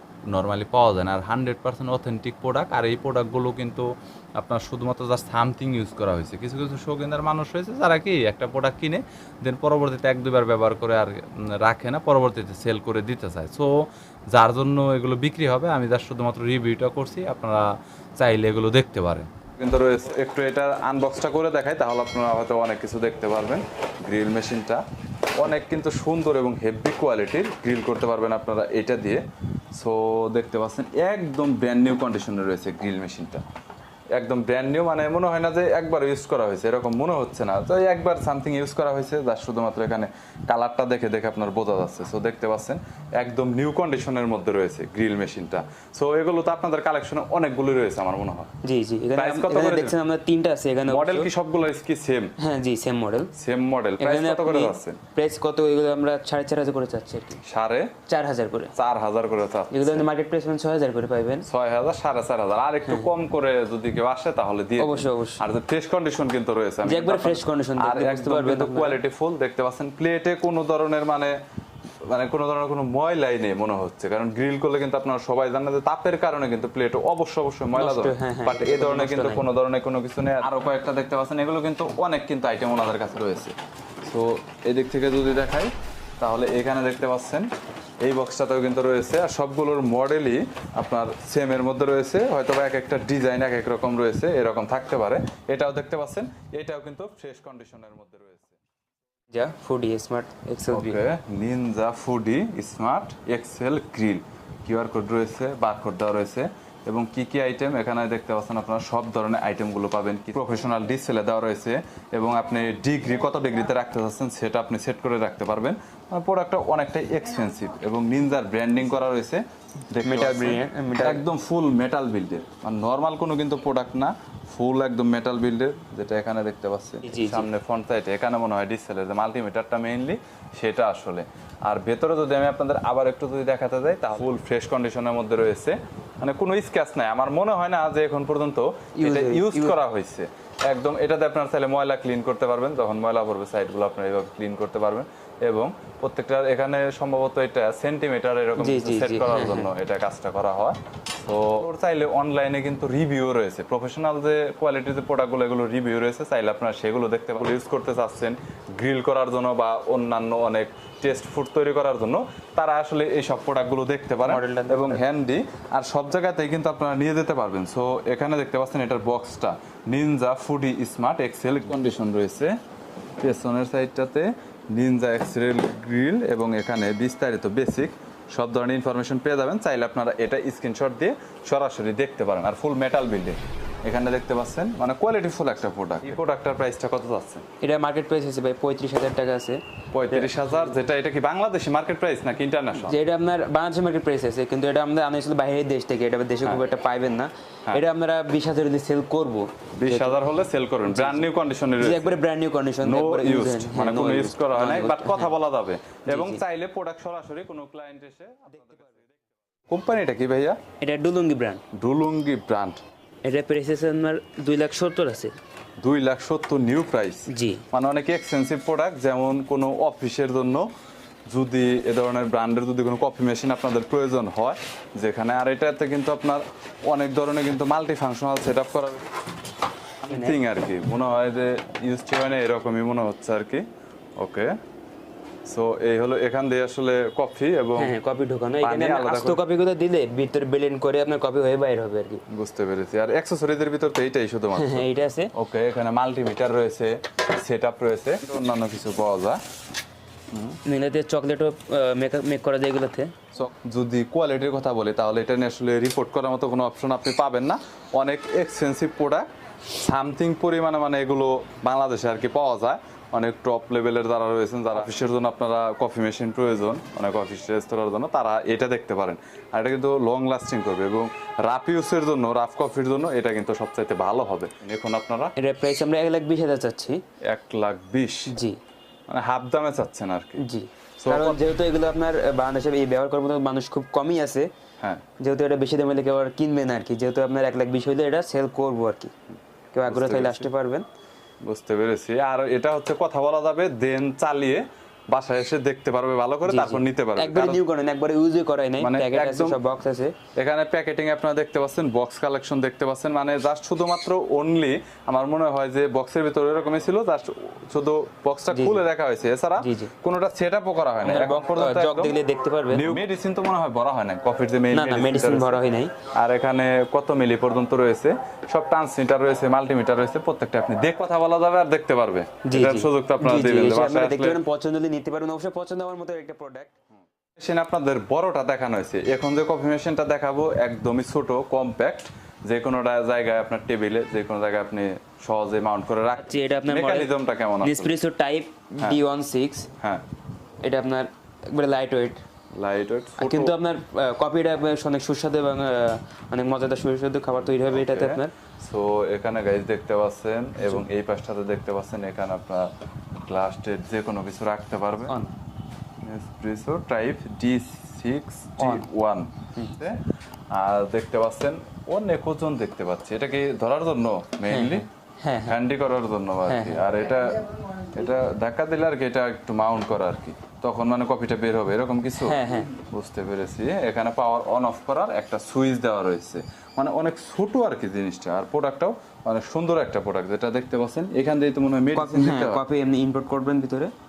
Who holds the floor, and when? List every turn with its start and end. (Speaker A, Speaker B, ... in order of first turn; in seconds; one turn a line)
Speaker A: 0.3-17.7
Speaker A: 18.2-24.8
Speaker A: 25.4-29.2
Speaker A: 29.8-33.4
Speaker A: 34.1-48.5
Speaker B: 48.6-51.3
Speaker A: 49.2-50.0
Speaker A: 50.9-52.3
Speaker B: 52.4-53.3
Speaker A: 53.4-55.0
Speaker B: 54.0-57.4
Speaker A: 57.4-58.0
Speaker B: 58.1-58.7
Speaker A: 58.8-60.1
Speaker B: 59.7-61.5
Speaker A: 61.5-71.4
Speaker B: 62.9-63.1
Speaker B: 64.8-65.4
Speaker B: 66.8-69.0
Speaker A: 72.0-87.5
Speaker B: 77.8-79.4
Speaker A: 88.0-98.6
Speaker B: 99.3-101.0
Speaker A: 100.7-172.6
Speaker B: 120.0-121.2
Speaker B: 127.0-127.5
Speaker B: 139.0-139.8
Speaker B: 148.6-149.7
Speaker B: 164.2-165.0
Speaker A: 173.2-187.4
Speaker B: 187.6-190.8
Speaker A: 189.9-193.0
Speaker B: 192.8-200.2
Speaker A: 199.8-202.1
Speaker B: 200.9-205.3
Speaker A: 202.8-210.6
Speaker B: 206.1-206.4
Speaker B: 210.8-211.6
Speaker A: 211.7-212.8
Speaker B: 213.2-215.4
Speaker A: 215.8-220.7
Speaker B: 217.3-217.7
Speaker A: 221.3-229.1
Speaker B: 230.0-230.4
Speaker A: 230.0-233.7
Speaker A: 234.2-234.6
Speaker A: 235.5-237.9
Speaker B: 237.8-242.2
Speaker A: 238.6-239.4
Speaker A: 242.3-249.4
Speaker B: 244.5-245.3
Speaker A: 250.3-250.6
Speaker B: 250.7-253.1
Speaker A: 253.3-275.3
Speaker B: 275.4-277.0
Speaker A: 277.2-278.4
Speaker B: 278.3-278.6
Speaker A: 279.1-280.4
Speaker B: 280.4-284.5
Speaker A: 281.0-281.4
Speaker B: 285.2-289.1
Speaker B: 289.7-290.9
Speaker A: 289.9-290.5
Speaker A: 291.4-297.6
Speaker B: 296.5-300.1
Speaker A: 298.8-299.6
Speaker A: 300.4-312.2
Speaker B: 308.5-308.9
Speaker B: 309.6-309.9
Speaker B: 311.0-313.0
Speaker A: 312.7-324.4
Speaker B: 314.7-315.9
Speaker B: 322.5-326.7
Speaker A: 327.4-337.9
Speaker B: 336.2-339.7
Speaker B: 340.6-342.2
Speaker A: 342.6-343.5
Speaker B: 343.2-348.4
Speaker A: 347.4-355.2
Speaker B: 355.1-355.3
Speaker A: 356.0-360.0
Speaker B: 358.6-358.9
Speaker A: 360.5-364.9
Speaker B: 364.5-365.6
Speaker A: 365.4-382.6
Speaker B: 366.5-366.9
Speaker B: 372.2-372.7
Speaker B: 381.9-383.9